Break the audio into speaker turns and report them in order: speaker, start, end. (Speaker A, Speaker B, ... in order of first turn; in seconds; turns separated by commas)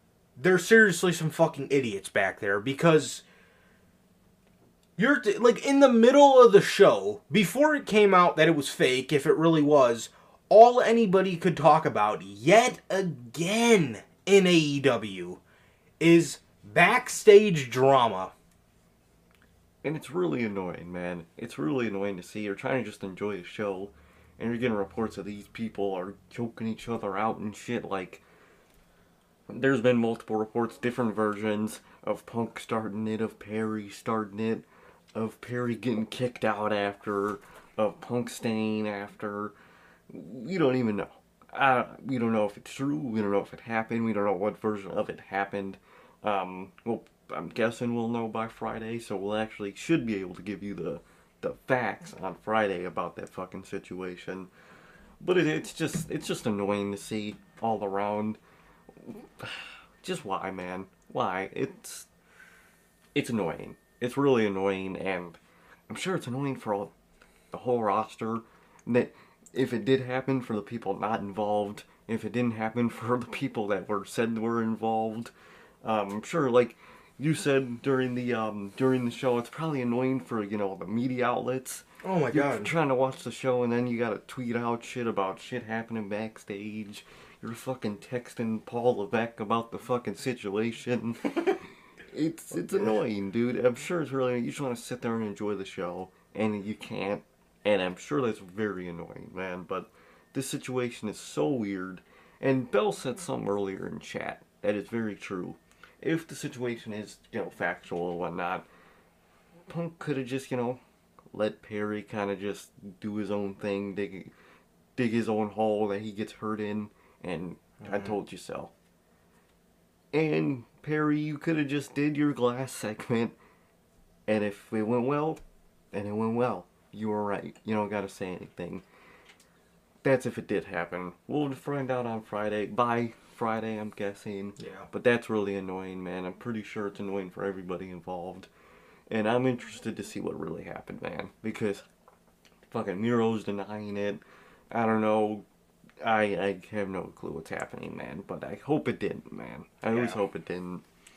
Speaker A: 0.4-3.2, Speaker A: 5.0-15.4, Speaker A: 16.0-18.3, Speaker B: 19.8-28.2, Speaker B: 29.5-39.5, Speaker B: 40.1-54.5, Speaker B: 55.2-58.4, Speaker B: 58.9-62.1, Speaker B: 63.1-66.9, Speaker B: 67.5-75.3, Speaker B: 75.8-108.7, Speaker A: 82.0-82.7, Speaker B: 109.7-110.8, Speaker B: 111.3-114.3, Speaker B: 115.0-118.7, Speaker A: 117.8-118.1, Speaker B: 120.1-123.4, Speaker B: 124.3-125.4, Speaker B: 125.9-128.8, Speaker B: 130.0-138.5, Speaker A: 134.6-134.9, Speaker B: 139.1-141.8, Speaker B: 142.7-145.4, Speaker B: 146.0-150.8, Speaker A: 149.9-150.2